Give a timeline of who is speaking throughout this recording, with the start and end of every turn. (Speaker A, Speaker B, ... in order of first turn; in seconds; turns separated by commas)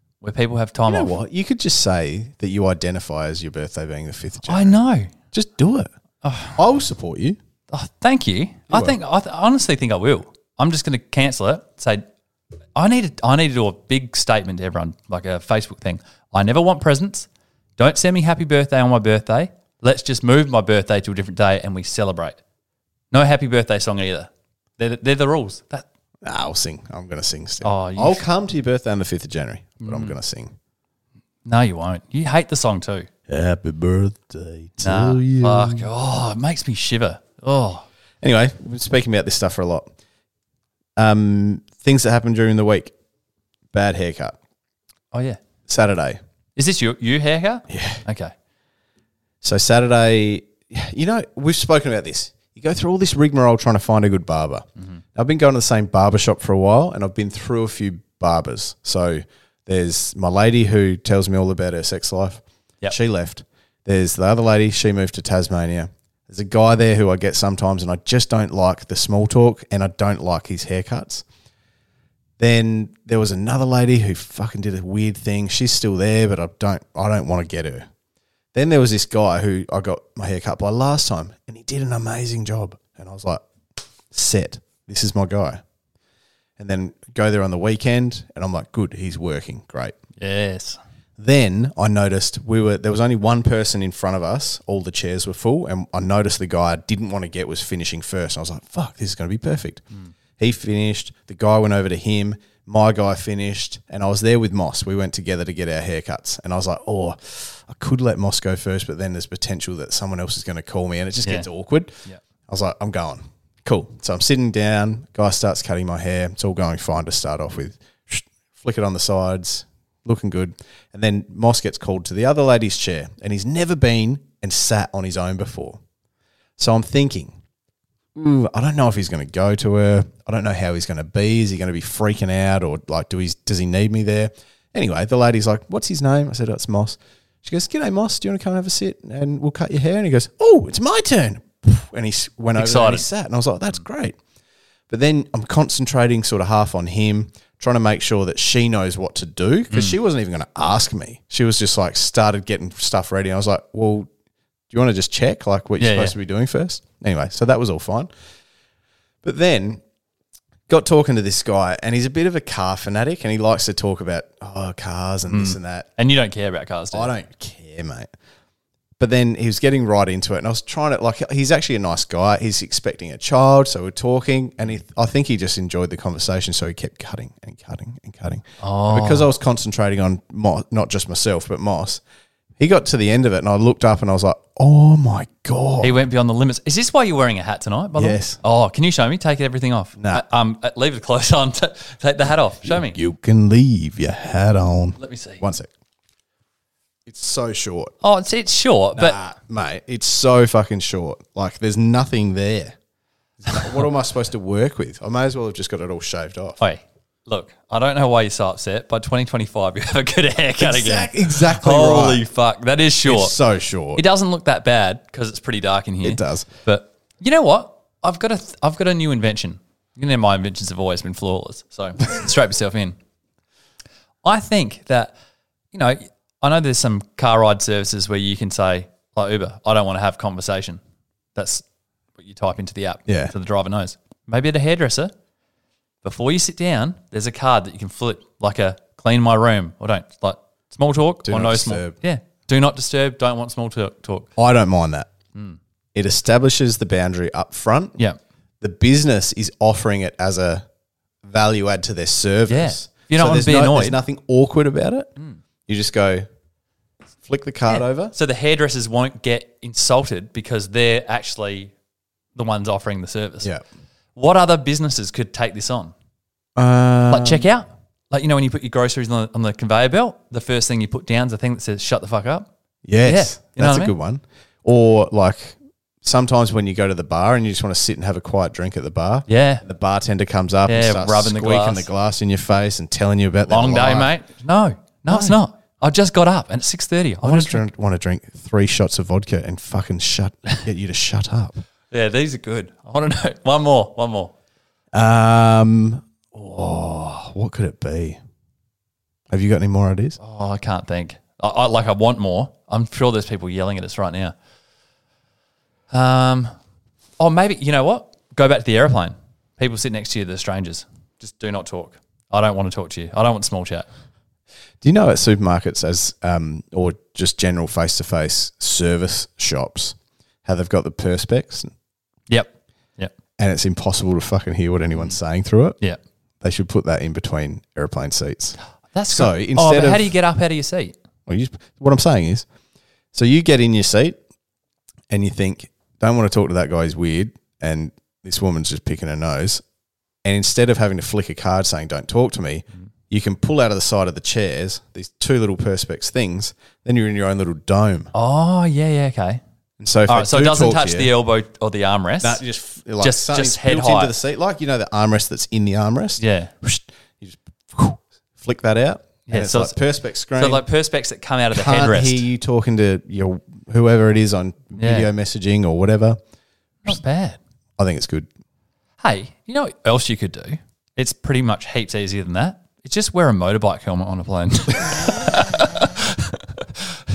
Speaker A: 0.2-1.1, Speaker B: 0.9-4.8, Speaker A: 4.5-5.1, Speaker B: 5.3-5.9, Speaker A: 6.2-6.6, Speaker B: 6.6-7.4, Speaker A: 7.7-12.1, Speaker B: 8.7-9.0, Speaker A: 12.8-22.4, Speaker A: 23.1-25.9, Speaker B: 26.2-30.5, Speaker A: 27.6-28.2, Speaker A: 29.8-30.1, Speaker A: 31.4-33.1, Speaker B: 33.3-35.9, Speaker A: 34.8-37.9, Speaker B: 38.2-39.9, Speaker B: 41.0-42.9, Speaker B: 43.7-44.4, Speaker A: 45.1-45.4, Speaker B: 45.7-46.2, Speaker A: 46.6-48.3, Speaker B: 47.7-48.0, Speaker B: 49.4-71.2, Speaker B: 72.4-77.9, Speaker B: 78.5-83.4, Speaker B: 84.1-85.6, Speaker B: 86.6-90.0, Speaker A: 90.2-90.8, Speaker B: 91.2-99.8, Speaker B: 100.4-125.8, Speaker B: 126.6-127.4, Speaker B: 128.1-144.2, Speaker A: 142.6-143.1, Speaker B: 144.9-154.1, Speaker B: 154.7-158.1, Speaker A: 155.8-156.1, Speaker B: 159.2-159.8, Speaker B: 160.7-165.9, Speaker A: 165.3-167.1, Speaker B: 166.9-168.1, Speaker B: 169.0-182.0, Speaker A: 178.6-179.3, Speaker B: 182.6-185.9, Speaker A: 185.8-192.9, Speaker B: 187.9-188.4, Speaker B: 190.0-190.2, Speaker B: 192.6-195.7, Speaker A: 195.0-195.4, Speaker B: 197.1-197.9, Speaker A: 198.0-199.2, Speaker B: 198.9-202.8, Speaker B: 203.4-206.6, Speaker A: 206.6-213.3, Speaker B: 210.6-212.2, Speaker B: 213.1-214.0, Speaker A: 213.9-222.9, Speaker B: 216.0-216.5, Speaker A: 224.2-225.1, Speaker A: 225.7-230.8, Speaker A: 231.3-231.6, Speaker A: 232.2-235.1, Speaker B: 233.1-233.3, Speaker A: 236.0-244.3, Speaker B: 241.2-241.9, Speaker B: 244.4-245.1, Speaker B: 245.9-248.0, Speaker B: 248.6-250.6, Speaker B: 251.2-255.1, Speaker A: 252.5-254.0, Speaker B: 255.7-256.3, Speaker B: 257.2-258.1, Speaker A: 257.7-261.7, Speaker A: 262.4-263.5, Speaker A: 264.1-265.9, Speaker B: 266.6-267.4, Speaker A: 267.1-272.5, Speaker B: 272.9-284.1, Speaker A: 273.1-273.9, Speaker A: 279.3-279.6, Speaker A: 280.6-281.9, Speaker A: 283.5-287.6, Speaker B: 285.1-285.4, Speaker B: 287.2-291.6, Speaker A: 291.9-294.3, Speaker B: 294.9-298.2, Speaker B: 299.3-300.2, Speaker A: 300.2-304.3, Speaker A: 305.9-306.5, Speaker A: 307.2-313.9, Speaker B: 314.8-321.7, Speaker A: 322.3-323.1, Speaker B: 323.4-325.8, Speaker B: 326.4-328.6, Speaker A: 328.9-330.9, Speaker B: 329.1-330.1, Speaker B: 331.3-332.4, Speaker B: 333.1-334.2, Speaker B: 335.1-339.6, Speaker B: 340.2-348.1, Speaker A: 348.1-349.4, Speaker B: 349.8-351.1, Speaker A: 350.1-352.4, Speaker B: 352.2-360.6, Speaker A: 353.0-354.1, Speaker A: 356.2-356.5, Speaker A: 359.3-359.8, Speaker A: 360.4-362.2, Speaker B: 361.5-366.2, Speaker A: 364.8-365.1, Speaker A: 366.9-367.4, Speaker B: 367.8-368.3, Speaker A: 369.0-377.0